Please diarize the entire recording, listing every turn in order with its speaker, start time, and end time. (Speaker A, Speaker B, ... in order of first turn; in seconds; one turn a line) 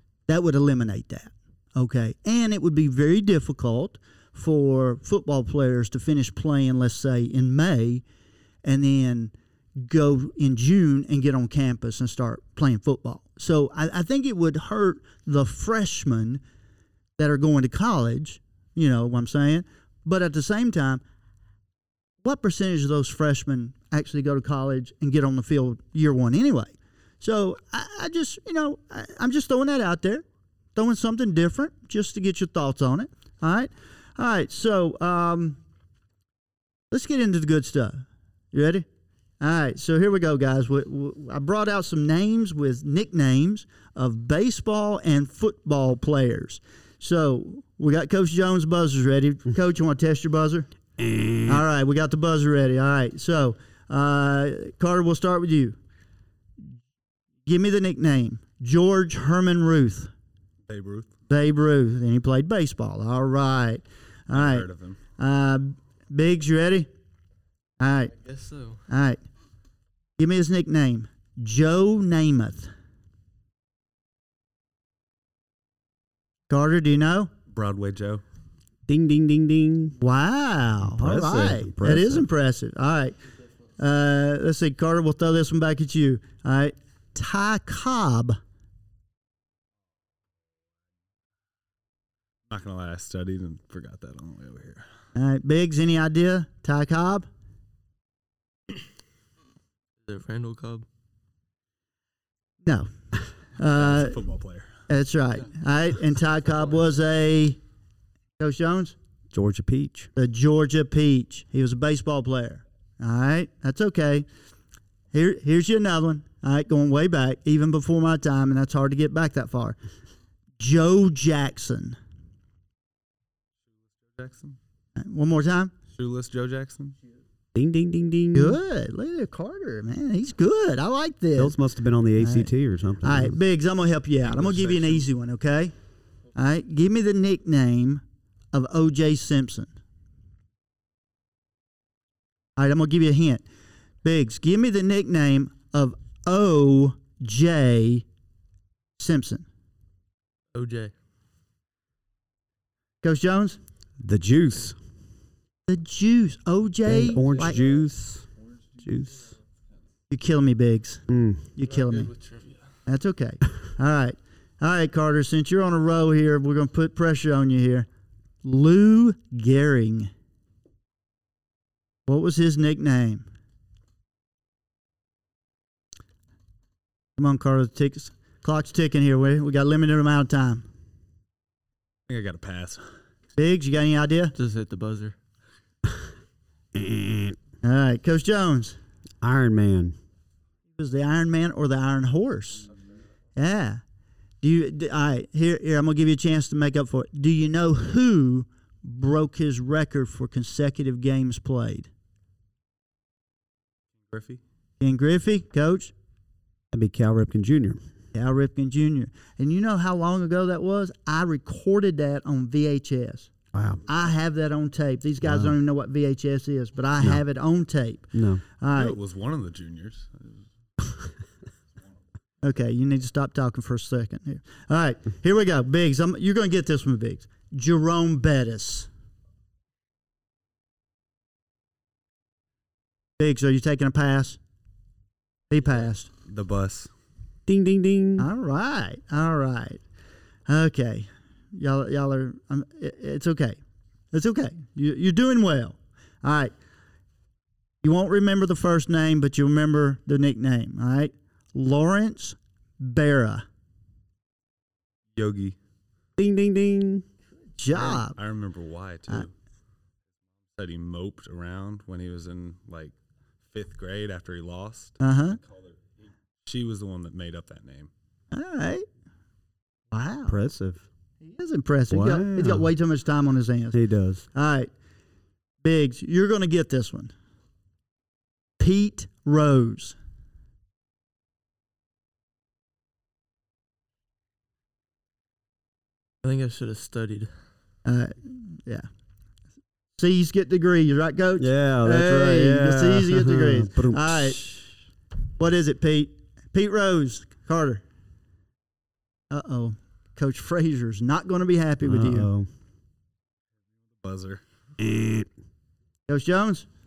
Speaker A: 0.3-8.0
Speaker A: 8.6-16.4
Speaker A: 17.2-21.0
Speaker A: 22.2-35.6
Speaker A: 36.9-38.9
Speaker A: 39.4-50.7
Speaker B: 51.0-51.6
Speaker A: 51.4-55.8
Speaker A: 57.5-60.1
Speaker C: 60.7-61.1
Speaker A: 61.3-64.7
Speaker C: 64.3-65.0
Speaker A: 65.2-66.9
Speaker A: 67.8-68.1
Speaker D: 68.2-68.8
Speaker A: 68.9-69.2
Speaker A: 70.2-72.7
Speaker A: 76.5-77.3
Speaker C: 77.5-78.2
Speaker B: 78.9-80.0
Speaker A: 80.0-83.2
Speaker B: 80.8-82.2
Speaker A: 83.8-88.4
Speaker C: 92.5-94.8
Speaker A: 95.1-97.3
Speaker D: 100.0-100.9
Speaker A: 102.6-102.9
Speaker A: 103.6-104.2
Speaker C: 103.7-104.7
Speaker A: 104.9-107.6
Speaker A: 108.4-108.9
Speaker B: 109.3-110.1
Speaker A: 110.2-114.2
Speaker A: 115.1-119.8
Speaker A: 120.6-122.0
Speaker C: 124.1-124.6
Speaker A: 125.0-125.7
Speaker C: 125.9-127.0
Speaker B: 127.5-128.6
Speaker A: 128.3-131.5
Speaker B: 131.4-133.3
Speaker A: 132.2-132.5
Speaker A: 133.0-135.7
Speaker C: 134.2-135.1
Speaker A: 136.3-139.7
Speaker A: 142.6-143.4
Speaker A: 144.0-148.0
Speaker A: 149.0-149.4
Speaker D: 150.5-150.9
Speaker A: 153.0-153.6
Speaker B: 154.0-154.8
Speaker A: 155.7-157.6
Speaker B: 156.8-159.3
Speaker A: 160.1-161.0
Speaker B: 161.1-161.4
Speaker A: 161.5-162.1
Speaker D: 161.6-162.6
Speaker A: 162.9-167.9
Speaker A: 168.4-170.1
Speaker A: 172.1-173.2
Speaker A: 177.2-180.6
Speaker C: 182.1-182.8
Speaker A: 183.4-184.3
Speaker D: 184.3-185.2
Speaker B: 186.7-187.3
Speaker A: 187.6-188.8
Speaker B: 189.2-189.9
Speaker A: 190.8-192.7
Speaker A: 193.3-193.8
Speaker A: 194.4-201.9
Speaker C: 204.1-204.4
Speaker A: 204.8-205.9
Speaker B: 206.7-207.8
Speaker A: 208.1-213.3
Speaker B: 213.5-213.8
Speaker A: 213.9-218.9
Speaker B: 215.2-215.5
Speaker B: 218.1-218.4
Speaker C: 218.7-220.4
Speaker A: 222.4-228.9
Speaker A: 233.2-234.4
Speaker A: 235.5-236.1
Speaker C: 236.2-236.9
Speaker B: 237.5-238.3
Speaker A: 238.2-239.8
Speaker A: 240.5-243.6
Speaker A: 244.1-246.5
Speaker A: 247.8-253.4
Speaker C: 255.1-255.6
Speaker B: 256.2-257.0
Speaker A: 257.6-258.2
Speaker C: 257.7-259.3
Speaker C: 260.5-262.9
Speaker C: 263.5-265.0
Speaker A: 265.0-265.4
Speaker C: 266.4-267.9
Speaker A: 268.3-268.9
Speaker A: 269.9-270.4
Speaker B: 270.3-270.8
Speaker A: 271.2-273.8
Speaker B: 271.9-272.7
Speaker B: 273.7-274.2
Speaker A: 274.3-274.7
Speaker A: 275.6-277.1
Speaker A: 278.6-279.9
Speaker D: 286.2-287.3
Speaker A: 287.8-288.9
Speaker A: 290.0-294.7
Speaker B: 291.4-294.4
Speaker A: 295.4-297.8
Speaker A: 299.3-302.3
Speaker B: 301.8-302.5
Speaker C: 304.0-304.4
Speaker B: 304.8-305.3
Speaker A: 306.1-306.7